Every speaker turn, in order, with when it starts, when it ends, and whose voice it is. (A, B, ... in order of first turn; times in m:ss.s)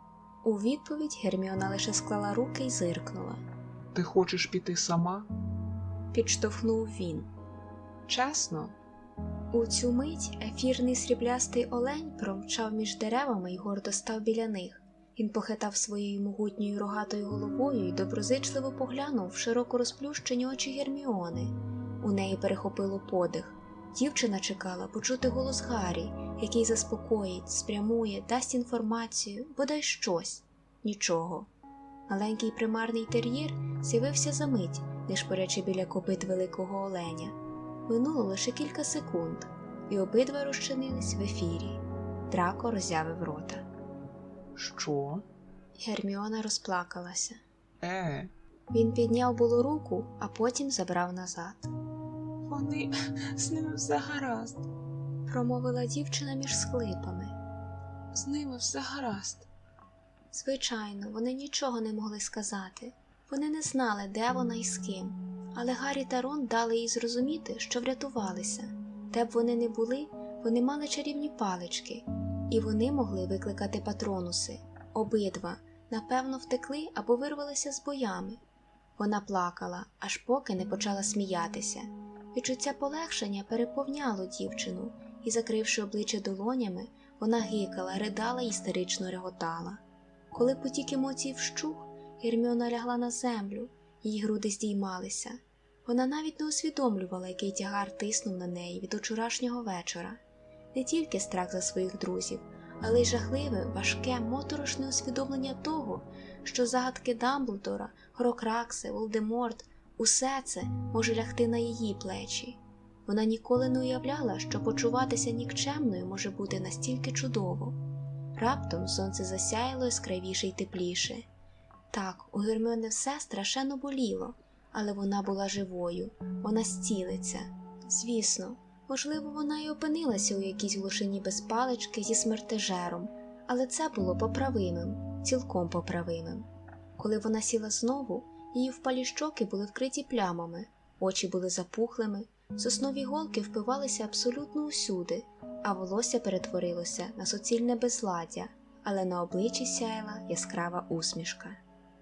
0:00.4-0:03.4 A
0:03.9-0:05.3 B
0:06.1-0:07.3 A
0:08.1-0:08.7 C
0:09.5-0:31.5 A
0:32.1-0:37.4 A
0:37.9-0:43.7 A
0:44.6-0:45.3 B
0:45.8-0:47.4 A
0:47.8-0:48.3 B
0:48.7-0:51.7 A
0:52.5-0:54.7 C
0:55.3-0:57.4 A
0:58.1-0:59.5 C
1:00.3-1:18.4 A
1:19.0-1:29.8 A
1:30.3-1:40.2 A
1:40.7-1:57.8 A
1:58.4-2:01.3 A
2:01.9-2:31.6 A